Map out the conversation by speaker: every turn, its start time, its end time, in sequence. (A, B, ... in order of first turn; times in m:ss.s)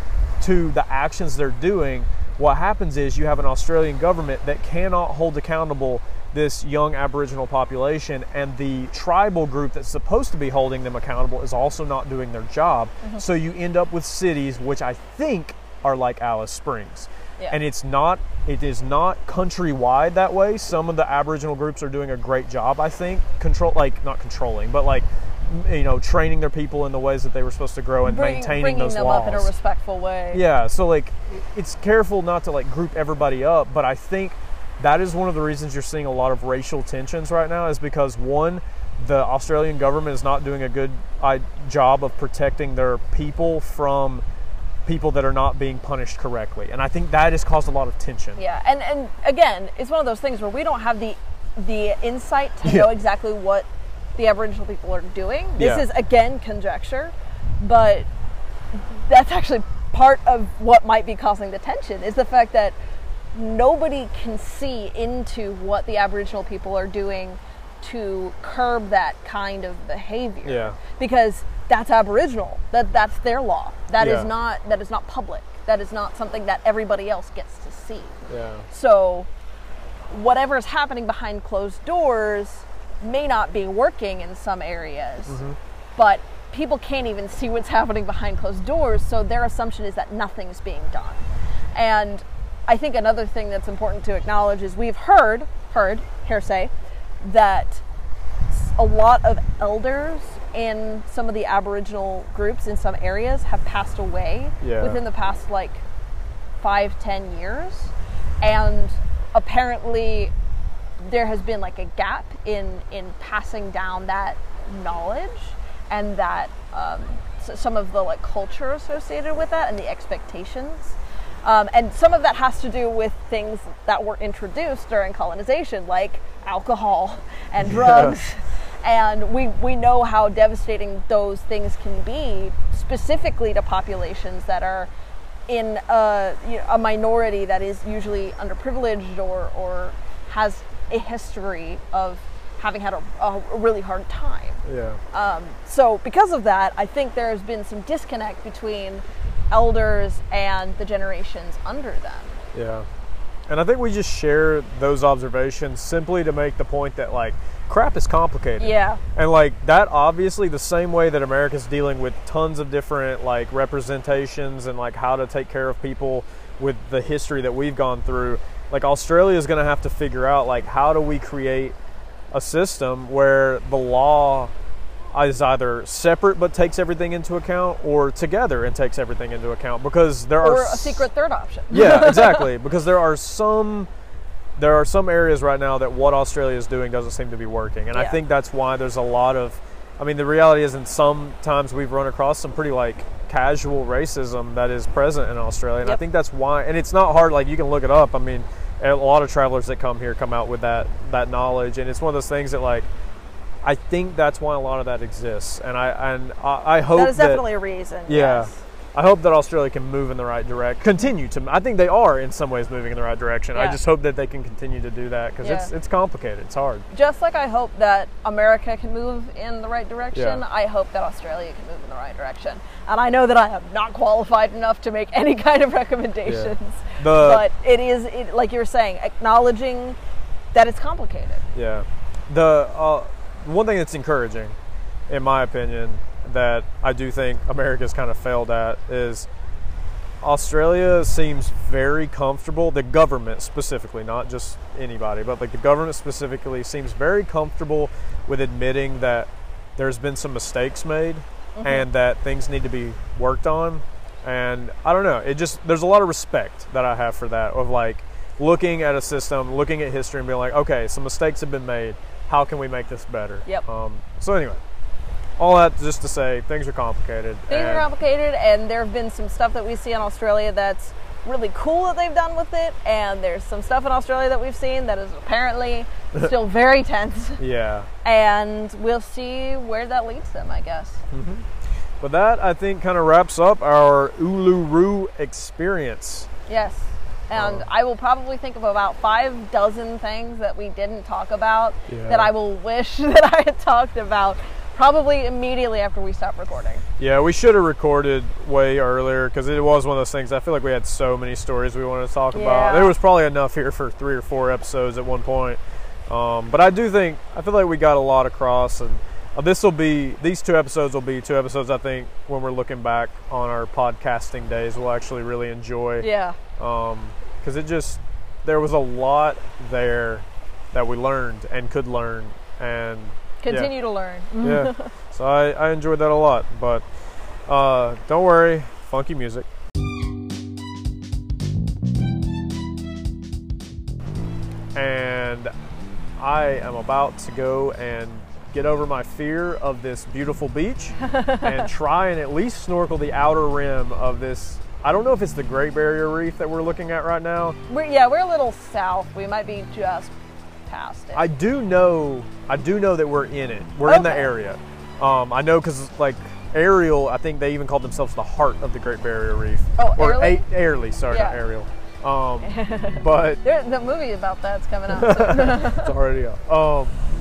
0:00.4-0:29.5 A
0:28.0-0:30.4 B
0:30.3-0:44.2 A
0:44.9-0:48.4 A
0:48.4-0:58.1 B
0:52.6-0:52.9 A
0:55.6-0:55.9 A
0:58.7-1:02.8 B
1:03.3-1:18.2 B
1:10.4-1:10.8 A
1:14.0-1:14.3 A
1:18.3-1:18.6 A
1:18.7-1:19.3 B
1:20.1-1:25.4 B
1:25.3-1:25.6 A
1:26.0-1:36.7 B
1:37.2-1:37.8 B
1:38.5-1:45.8 B
1:44.6-1:45.0 A
1:46.6-1:50.3 B
1:51.0-2:14.9 B
2:07.6-2:08.2 A
2:15.5-2:32.4 B
2:24.6-2:25.0 A
2:32.5-2:32.9 A
2:33.5-2:51.8 A
2:38.6-2:39.0 B
2:52.3-2:54.5 A
2:55.1-3:01.1 A
3:00.4-3:02.5 B
3:01.7-3:03.9 A
3:04.6-3:22.9 A
3:23.6-3:27.4 A
3:26.9-3:28.6 B
3:28.1-3:36.9 A
3:33.5-3:33.8 B
3:35.4-3:35.7 B
3:36.9-3:50.0 B
3:40.1-3:40.4 A
3:46.2-3:47.5 A
3:50.5-3:51.4 B
3:51.6-3:54.6 A
3:55.1-3:59.3 A
4:00.2-4:24.6 A
4:11.6-4:11.9 B
4:25.4-4:27.9 A
4:27.5-4:37.4 B
4:37.4-4:37.9 A
4:38.0-4:41.0 B
4:41.1-4:41.5 A
4:42.0-4:46.3 A
4:46.5-4:56.8 B
4:47.4-4:47.7 A
4:51.9-4:52.3 A
4:57.0-5:23.7 A
5:02.3-5:03.0 B
5:16.0-5:16.4 B
5:23.4-5:24.9 B
5:24.4-5:26.8 A
5:27.5-5:29.5 A
5:34.8-5:35.5 A
5:36.2-5:47.6 A
5:41.0-5:41.7 B
5:47.7-5:50.1 B
5:50.7-5:51.3 B
5:51.1-6:03.4 A
5:53.8-5:54.3 B
5:59.8-6:00.4 B
6:01.1-6:01.4 B
6:02.4-6:06.0 B
6:04.9-6:07.0 A